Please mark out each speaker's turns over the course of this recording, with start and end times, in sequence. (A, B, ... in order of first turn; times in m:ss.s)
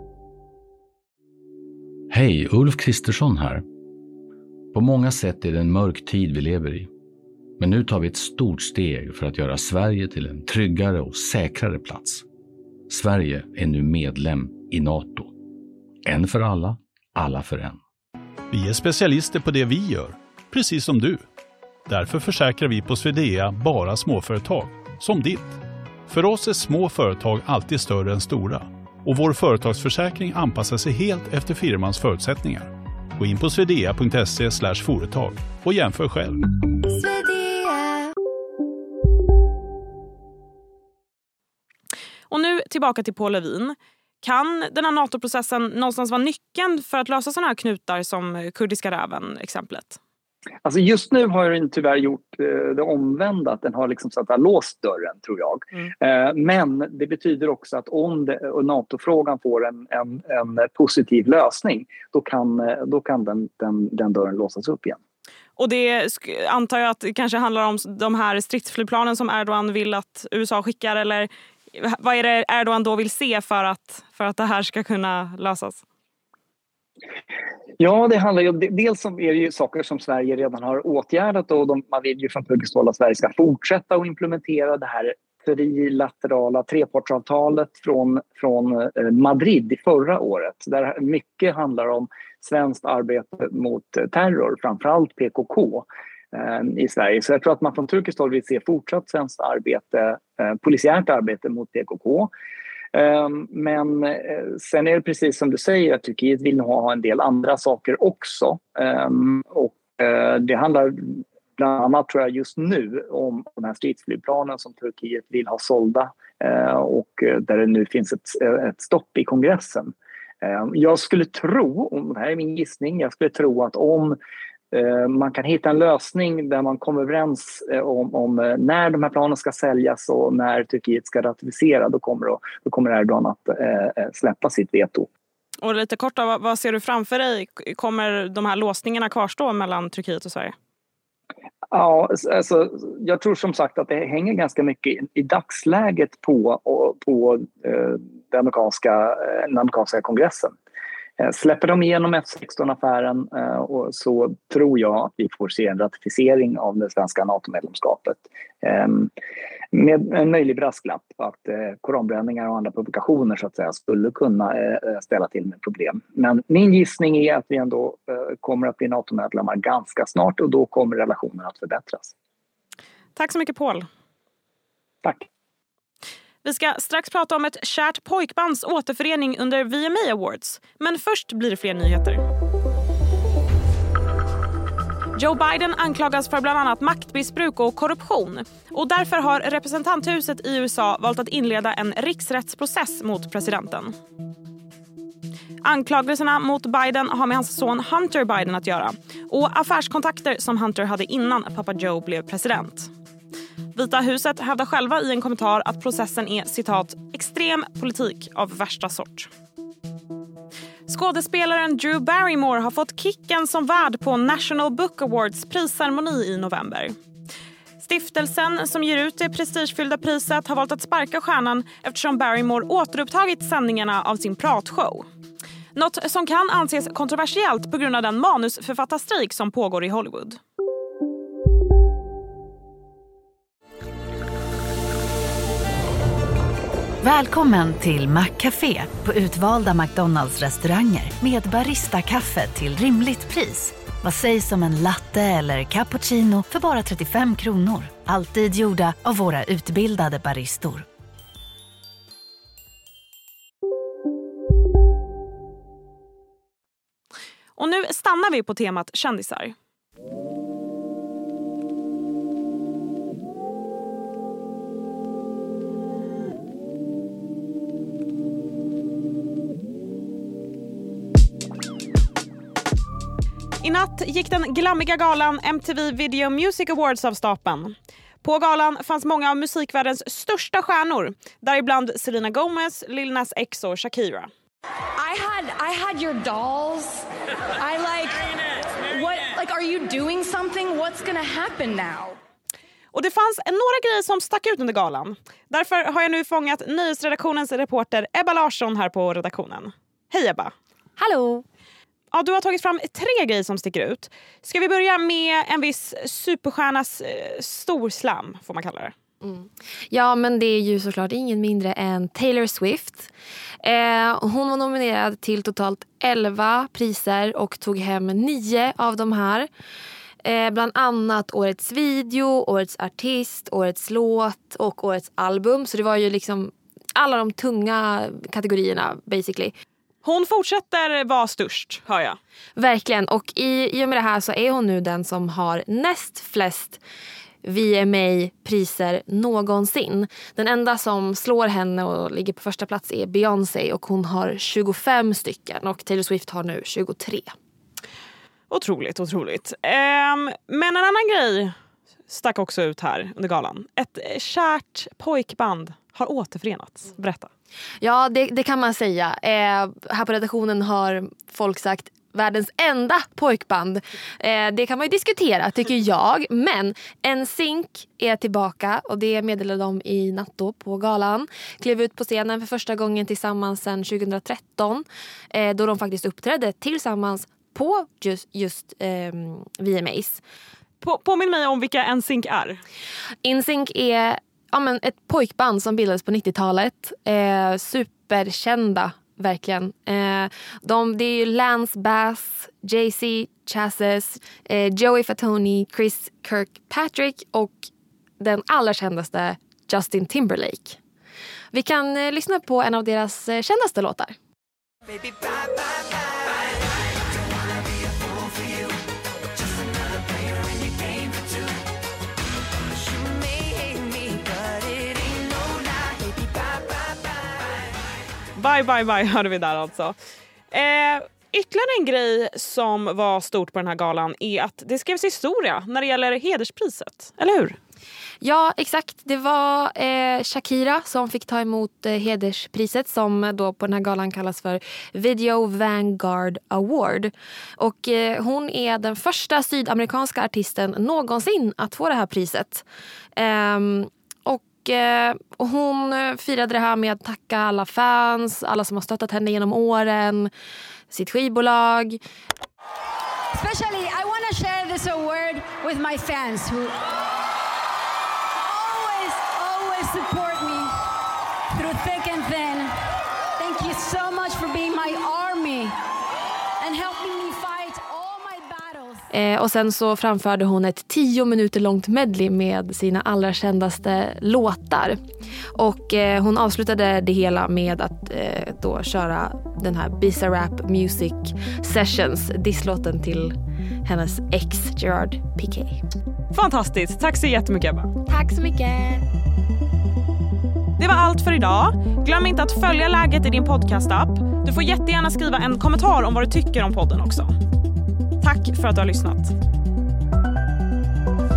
0:02.1-0:03.6 A
0:04.7-0:06.9 A
0:07.6-0:12.2 A
0:12.9-0:15.3 A
0:16.0-0:17.8 A
0:18.5-0:21.2 B
0:21.9-0:36.4 B
0:36.9-0:38.1 C
0:42.3-0:50.0 D
0:50.6-1:05.0 E
1:05.6-1:15.8 D
1:17.8-1:42.3 E
1:42.9-2:04.2 E
2:04.7-2:15.1 E
2:15.6-2:20.5 D
2:21.7-2:30.5 E
2:31.2-2:39.1 E
2:39.7-2:52.1 E
2:53.2-2:53.8 D
2:56.4-3:02.2 D
3:05.2-3:13.9 D
3:15.6-3:22.9 D
3:23.7-3:29.3 D
3:30.9-3:37.0 D
3:37.8-3:45.0 D
3:45.7-3:50.4 D
3:57.0-4:10.8 F
4:17.6-4:19.5 D
4:33.6-4:44.3 D
4:45.0-4:47.0 G
4:47.6-4:48.2 G
4:48.9-4:52.2 G
4:52.9-5:00.5 D
5:01.0-5:01.4 H
5:02.1-5:08.9 D
5:09.2-5:13.1 H
5:13.6-5:19.5 H
5:20.2-5:29.5 H
5:30.0-5:32.2 D
5:32.6-5:36.8 H
5:37.4-5:47.3 H
5:48.5-5:51.5 D
5:52.1-5:57.3 D
5:57.8-6:20.2 H
6:20.8-6:22.6 D
6:23.2-6:40.8 H
6:41.5-6:44.1 H
6:58.4-7:00.0 D
7:00.5-7:07.6 D
7:08.2-7:22.6 H
7:23.2-7:30.3 H
7:30.9-7:32.0 H
7:33.3-7:36.8 C
7:38.4-7:40.9 C
7:41.5-7:42.8 C
7:43.4-7:45.7 C
7:46.6-7:49.0 C
7:49.1-7:55.0 H
7:55.6-8:03.3 H
8:03.8-8:05.8 H
8:06.3-8:07.9 D
8:08.1-8:09.0 H
8:10.8-8:17.3 D
8:18.2-8:19.3 D